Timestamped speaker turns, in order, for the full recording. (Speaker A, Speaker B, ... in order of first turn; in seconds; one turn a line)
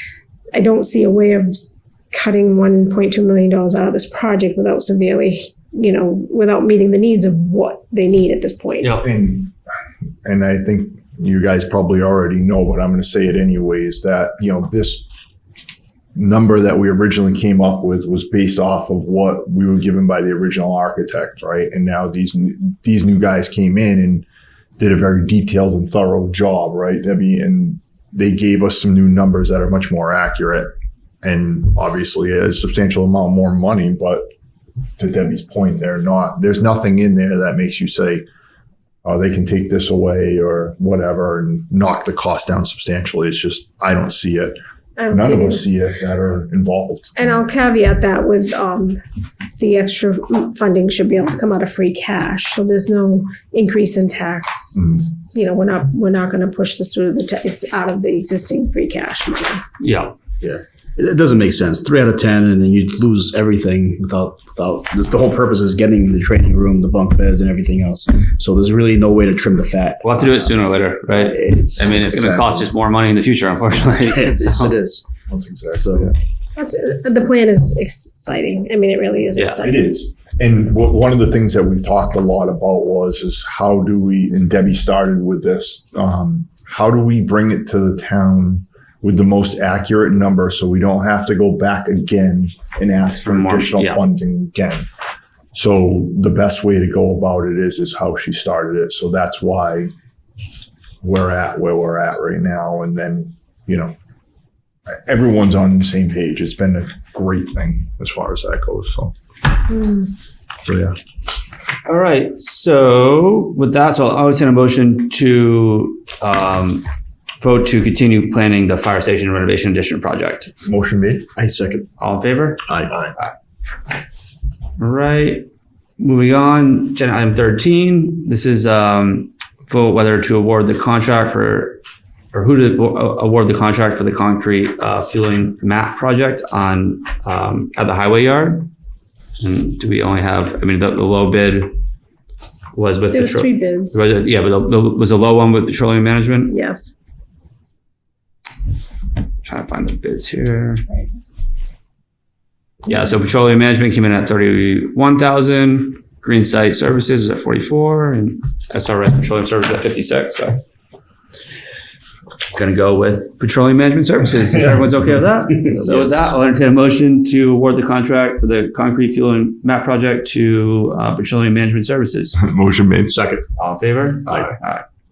Speaker A: 0.5-9.0
Speaker B: 9.0-9.5
Speaker B: 10.2-15.1
Speaker B: 16.1-24.2
Speaker B: 24.8-30.7
Speaker B: 31.2-34.3
Speaker B: 35.0-38.2
Speaker B: 39.0-44.6
Speaker A: 45.0-45.6
Speaker B: 45.1-47.2
Speaker A: 47.2-49.0
Speaker A: 49.6-59.6
Speaker B: 54.8-55.0
Speaker C: 59.8-60.1
Speaker D: 60.4-70.5
Speaker C: 70.0-74.8
Speaker D: 71.1-72.7
Speaker D: 74.0-75.1
Speaker B: 75.3-76.1
Speaker D: 75.7-76.1
Speaker A: 76.6-79.9
Speaker B: 79.6-94.9
Speaker C: 93.2-94.0
Speaker B: 95.5-99.9
Speaker B: 101.0-103.9
Speaker B: 104.9-109.1
Speaker A: 109.7-110.1
Speaker B: 110.7-111.0
Speaker C: 111.9-116.8
Speaker C: 117.4-120.5
Speaker B: 120.7-121.3
Speaker D: 121.4-121.9
Speaker C: 122.0-122.6
Speaker B: 122.7-123.1
Speaker C: 124.8-125.5
Speaker C: 126.0-131.8
Speaker C: 132.3-138.7
Speaker C: 139.4-141.7
Speaker C: 142.8-146.5
Speaker A: 143.1-144.0
Speaker A: 146.5-146.9
Speaker C: 149.4-150.8
Speaker C: 152.9-160.6
Speaker C: 162.5-172.4
Speaker D: 165.7-166.3
Speaker B: 172.4-173.2
Speaker D: 173.1-173.4
Speaker C: 173.6-174.8